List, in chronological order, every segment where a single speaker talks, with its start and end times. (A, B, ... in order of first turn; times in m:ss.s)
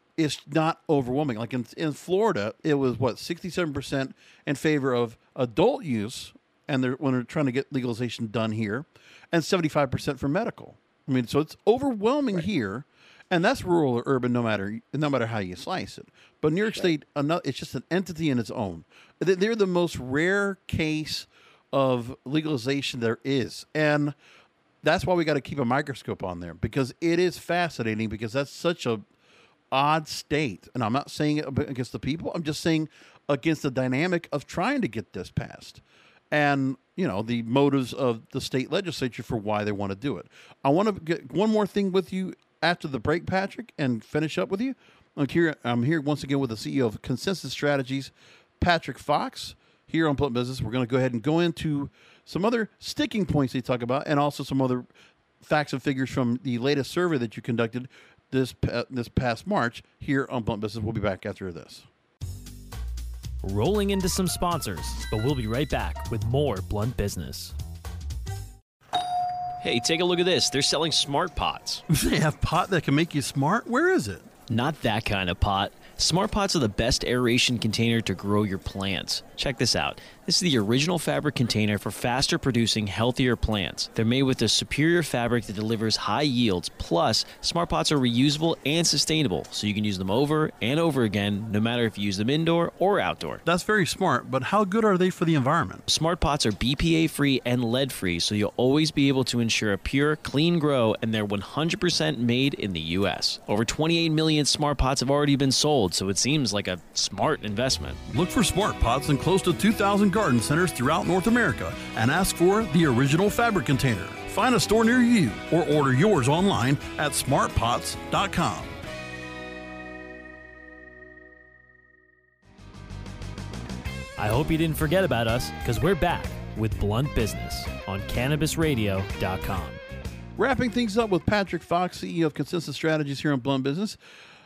0:00.2-0:24.2 A
0:24.8-0:29.0 A
0:29.7-0:54.9 A
0:55.4-1:01.9 A
1:03.4-1:07.6 B
1:09.6-1:11.8 B
1:11.9-1:14.3 A
1:14.5-1:33.4 B
1:33.4-1:35.8 A
1:35.9-1:48.0 B
1:48.1-1:58.8 A
2:04.2-2:09.8 B
2:10.4-2:14.0 A